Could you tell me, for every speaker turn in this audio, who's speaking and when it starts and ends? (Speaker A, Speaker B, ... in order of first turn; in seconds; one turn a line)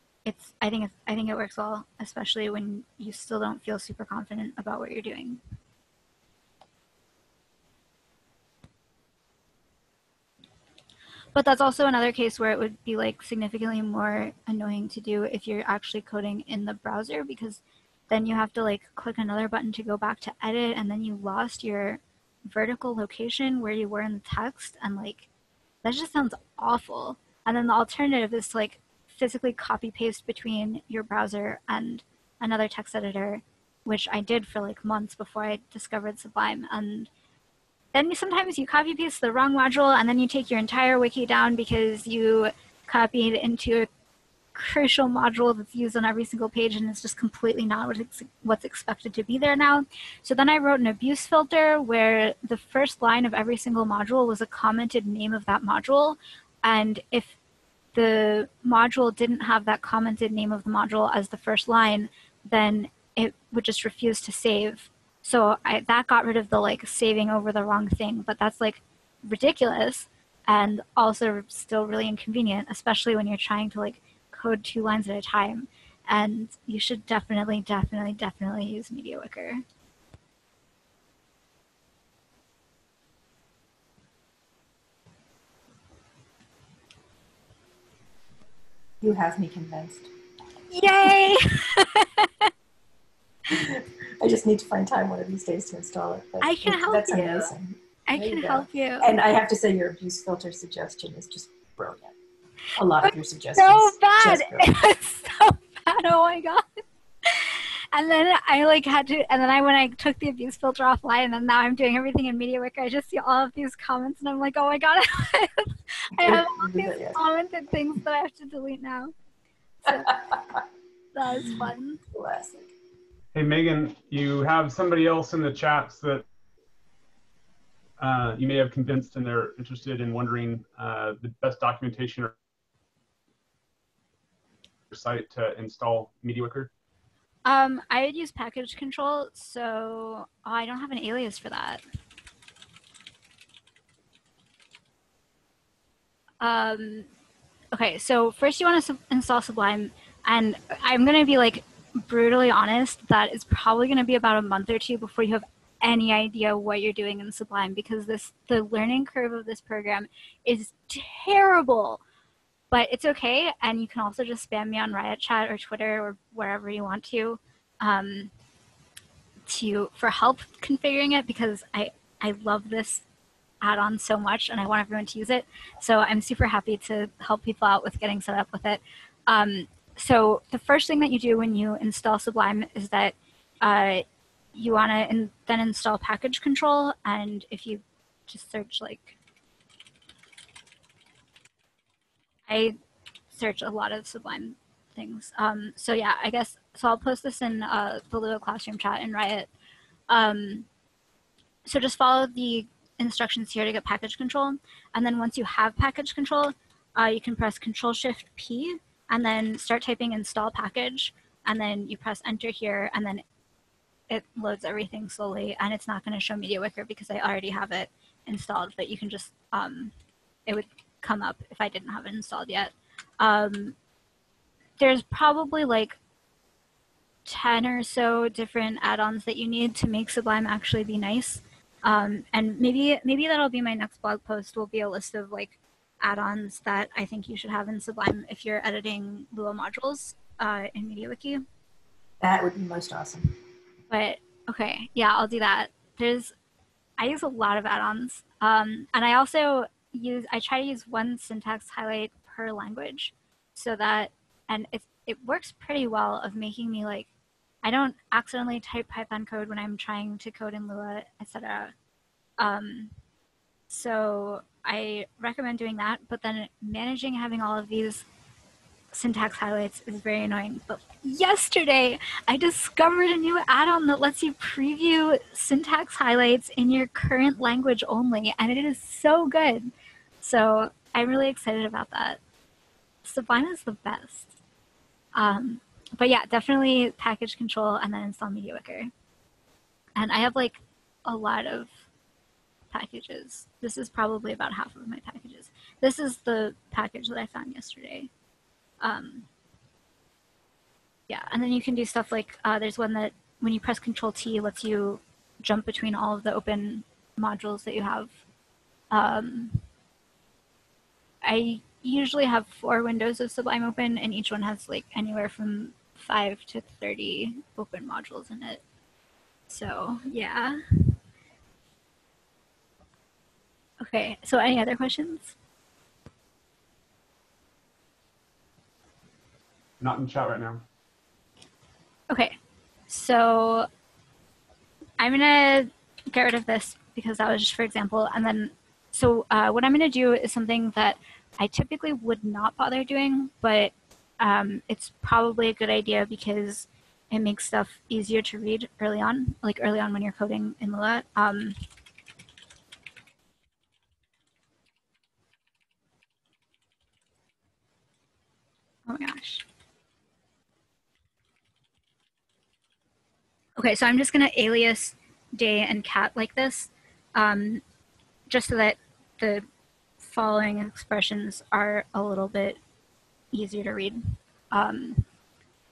Speaker A: 0.2-5.4
Speaker A: 11.3-25.3
Speaker A: 25.8-37.1
Speaker A: 37.9-43.9
Speaker A: 44.5-57.4
Speaker A: 57.9-79.6
Speaker B: 89.0-90.1
Speaker A: 90.7-92.5
Speaker B: 93.5-102.2
Speaker A: 96.4-97.5
Speaker A: 98.1-99.2
Speaker B: 102.8-104.7
Speaker A: 103.0-106.6
Speaker A: 107.2-119.1
Speaker B: 116.2-117.2
Speaker A: 119.8-120.1
Speaker B: 119.9-120.6
Speaker A: 121.2-122.0
Speaker B: 121.4-122.7
Speaker C: 123.3-126.2
Speaker C: 128.0-132.3
Speaker C: 134.9-136.7
Speaker A: 137.4-141.8
Speaker A: 146.4-147.1
Speaker A: 147.7-162.0
Speaker A: 162.7-168.3
Speaker A: 169.5-173.0
Speaker A: 173.6-184.0
Speaker A: 184.6-189.2
Speaker A: 192.5-192.8
Speaker A: 193.3-199.5
Speaker A: 200.1-200.7
Speaker A: 201.7-213.2
Speaker A: 214.1-219.9
Speaker A: 220.5-223.8
Speaker A: 224.8-226.0
Speaker A: 227.3-241.4
Speaker B: 242.2-243.4
Speaker A: 243.9-246.3
Speaker A: 247.0-257.1
Speaker A: 257.6-261.7
Speaker A: 262.4-262.9
Speaker A: 263.7-268.1
Speaker A: 268.9-282.2
Speaker A: 283.0-284.3
Speaker A: 285.1-288.9
Speaker A: 290.0-291.8
Speaker A: 292.7-298.1
Speaker A: 298.8-299.3
Speaker A: 301.1-308.2
Speaker A: 308.9-309.6
Speaker A: 311.2-318.6
Speaker A: 319.5-320.6
Speaker A: 323.8-325.4
Speaker C: 329.8-330.6
Speaker A: 332.1-332.4
Speaker A: 332.9-333.7
Speaker A: 335.0-351.6
Speaker A: 358.9-359.4
Speaker A: 363.6-367.6
Speaker A: 368.3-369.5
Speaker A: 370.0-372.6
Speaker A: 373.3-375.1